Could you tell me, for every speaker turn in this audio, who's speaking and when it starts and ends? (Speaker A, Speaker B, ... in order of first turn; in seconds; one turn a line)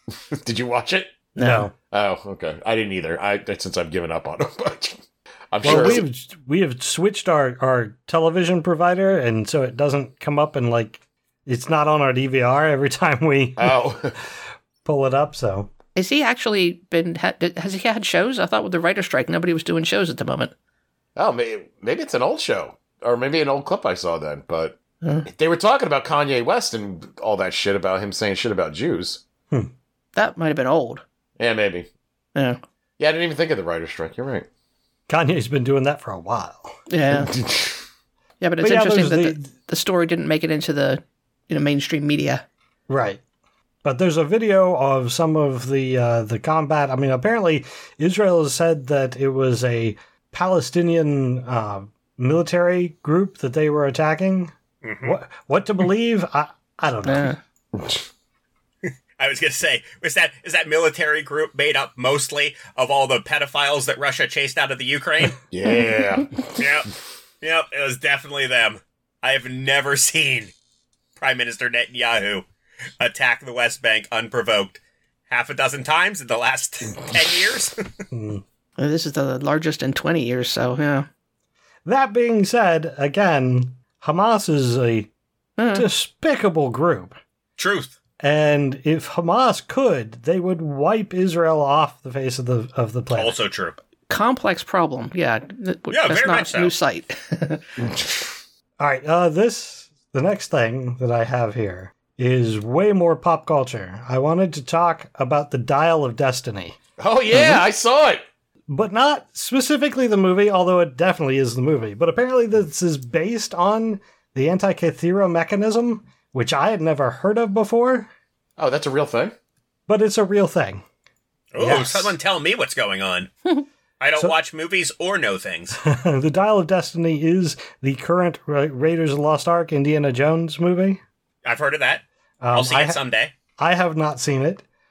Speaker A: 0.3-6.0
Speaker B: 1.4-1.7
Speaker C: 1.4-1.7
Speaker C: 5.6-13.8
Speaker B: 5.7-6.0
Speaker A: 13.6-14.2
Speaker C: 14.8-15.7
Speaker B: 16.0-20.5
Speaker A: 21.2-29.2
Speaker B: 30.1-31.0
Speaker A: 31.4-31.9
Speaker B: 32.4-32.6
Speaker A: 33.0-34.5
Speaker C: 35.1-36.7
Speaker B: 36.9-37.4
Speaker A: 37.2-37.7
Speaker B: 38.4-42.5
Speaker C: 38.6-39.5
Speaker C: 42.9-43.2
Speaker C: 43.8-57.3
Speaker D: 54.8-55.1
Speaker B: 57.1-57.4
Speaker A: 57.8-58.0
Speaker D: 59.2-65.4
Speaker A: 65.5-66.6
Speaker D: 66.6-66.9
Speaker D: 67.4-70.5
Speaker D: 71.2-72.5
Speaker D: 73.0-77.8
Speaker C: 78.1-78.4
Speaker B: 78.8-81.1
Speaker C: 81.8-85.1
Speaker B: 85.6-85.9
Speaker C: 85.7-87.2
Speaker D: 87.6-88.0
Speaker C: 88.2-93.4
Speaker D: 93.1-93.8
Speaker B: 94.1-97.6
Speaker D: 95.9-96.7
Speaker C: 98.8-106.8
Speaker A: 107.0-108.2
Speaker B: 107.3-107.6
Speaker C: 108.7-118.1
Speaker A: 118.6-119.3
Speaker C: 119.9-120.8
Speaker D: 121.5-123.3
Speaker C: 121.6-122.2
Speaker D: 124.0-125.8
Speaker C: 125.8-131.0
Speaker D: 131.4-133.3
Speaker C: 132.4-133.0
Speaker C: 133.6-134.6